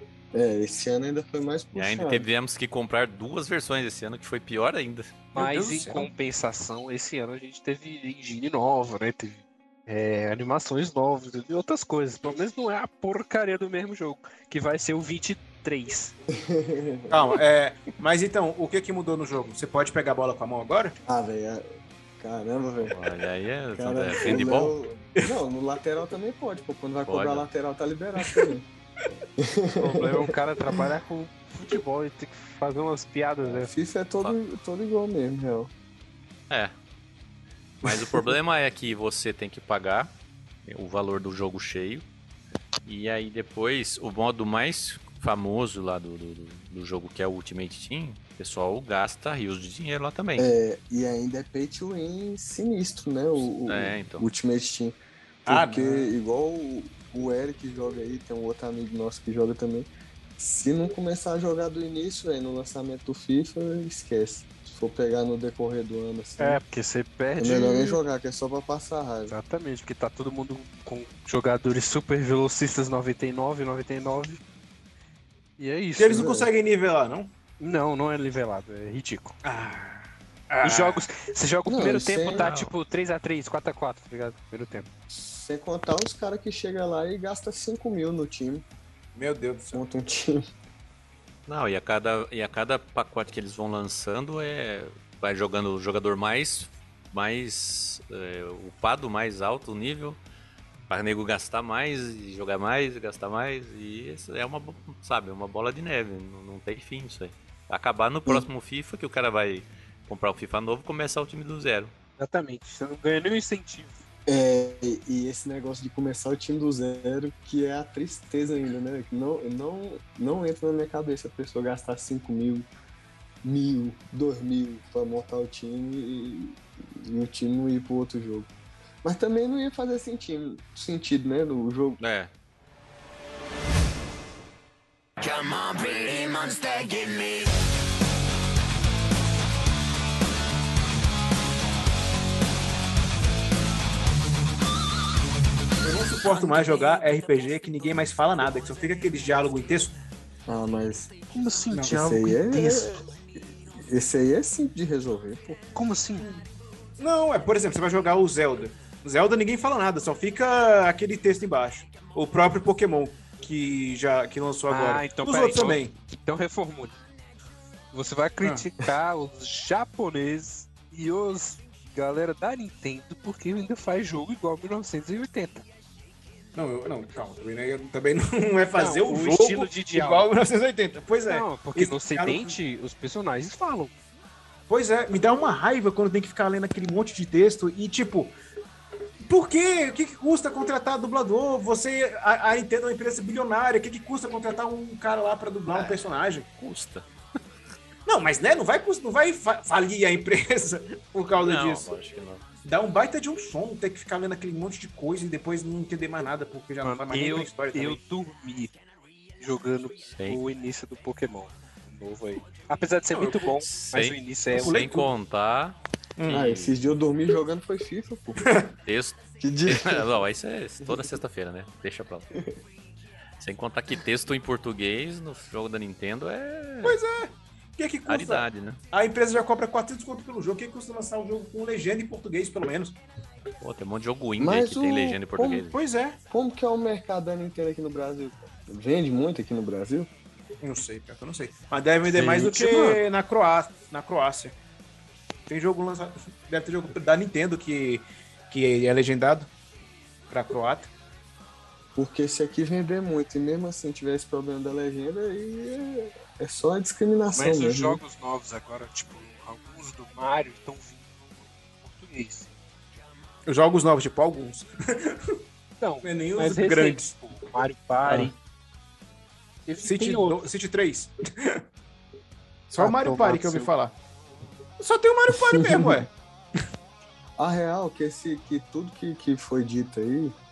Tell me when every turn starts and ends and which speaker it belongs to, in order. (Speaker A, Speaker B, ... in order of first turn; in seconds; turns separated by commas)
Speaker A: 0.3-2.3, Speaker B: 1.7-5.2, Speaker C: 5.3-6.1, Speaker D: 5.3-16.1, Speaker A: 16.3-17.2, Speaker C: 17.1-20.9, Speaker A: 21.1-21.6, Speaker A: 22.2-23.0, Speaker B: 22.9-24.8, Speaker A: 23.8-28.6, Speaker B: 27.1-27.5, Speaker A: 29.4-30.2, Speaker D: 29.8-33.7, Speaker A: 33.5-35.7, Speaker B: 37.8-40.1, Speaker B: 40.6-42.0, Speaker B: 42.8-50.5, Speaker A: 50.4-66.6, Speaker B: 53.4-54.3, Speaker C: 55.5-56.1, Speaker D: 66.4-68.0, Speaker A: 67.4-69.4, Speaker D: 69.3-74.4, Speaker D: 75.6-76.2, Speaker C: 76.0-77.3, Speaker A: 76.0-76.5, Speaker D: 77.6-79.4, Speaker C: 79.4-81.0, Speaker D: 80.6-84.9, Speaker A: 81.7-82.5, Speaker B: 82.3-82.7, Speaker A: 85.1-88.7, Speaker C: 89.2-89.8, Speaker A: 89.7-90.4, Speaker B: 91.5-100.2, Speaker B: 100.9-111.9, Speaker D: 112.2-114.0, Speaker A: 114.3-122.7, Speaker A: 123.4-128.5, Speaker A: 129.0-132.0, Speaker B: 132.0-132.3, Speaker E: 135.3-137.5, Speaker C: 145.8-149.9, Speaker A: 150.5-151.1, Speaker D: 151.3-153.1, Speaker A: 151.9-153.0, Speaker A: 153.7-155.6, Speaker D: 155.7-156.3, Speaker C: 156.2-156.5, Speaker C: 157.0-165.9, Speaker D: 164.7-167.0, Speaker D: 167.9-175.7, Speaker C: 176.6-182.6, Speaker D: 178.7-180.3, Speaker D: 181.3-183.9, Speaker C: 184.7-188.3, Speaker C: 189.3-196.5, Speaker B: 195.7-197.1, Speaker C: 198.1-201.9, Speaker B: 201.3-202.4, Speaker C: 202.7-208.0, Speaker D: 206.8-208.7, Speaker D: 209.4-214.8, Speaker B: 210.1-210.4, Speaker C: 213.1-213.4, Speaker B: 213.6-216.8, Speaker C: 214.5-215.1, Speaker A: 216.3-218.5, Speaker C: 218.4-218.7, Speaker B: 218.8-222.3, Speaker A: 219.4-220.2, Speaker A: 220.8-221.2, Speaker B: 223.4-227.0, Speaker C: 226.8-233.0, Speaker B: 228.1-228.8, Speaker B: 233.6-235.8, Speaker A: 234.4-235.8, Speaker C: 235.7-236.2, Speaker A: 236.3-240.1, Speaker C: 240.6-244.6, Speaker D: 242.1-243.0, Speaker C: 245.5-249.5, Speaker C: 250.3-250.9, Speaker A: 252.0-258.0, Speaker D: 257.3-262.5, Speaker C: 263.5-265.1, Speaker D: 265.8-268.4, Speaker C: 266.0-267.1, Speaker D: 269.7-270.5, Speaker C: 269.8-271.6, Speaker C: 272.7-273.9, Speaker D: 272.8-273.7, Speaker C: 274.8-276.1, Speaker A: 277.4-280.3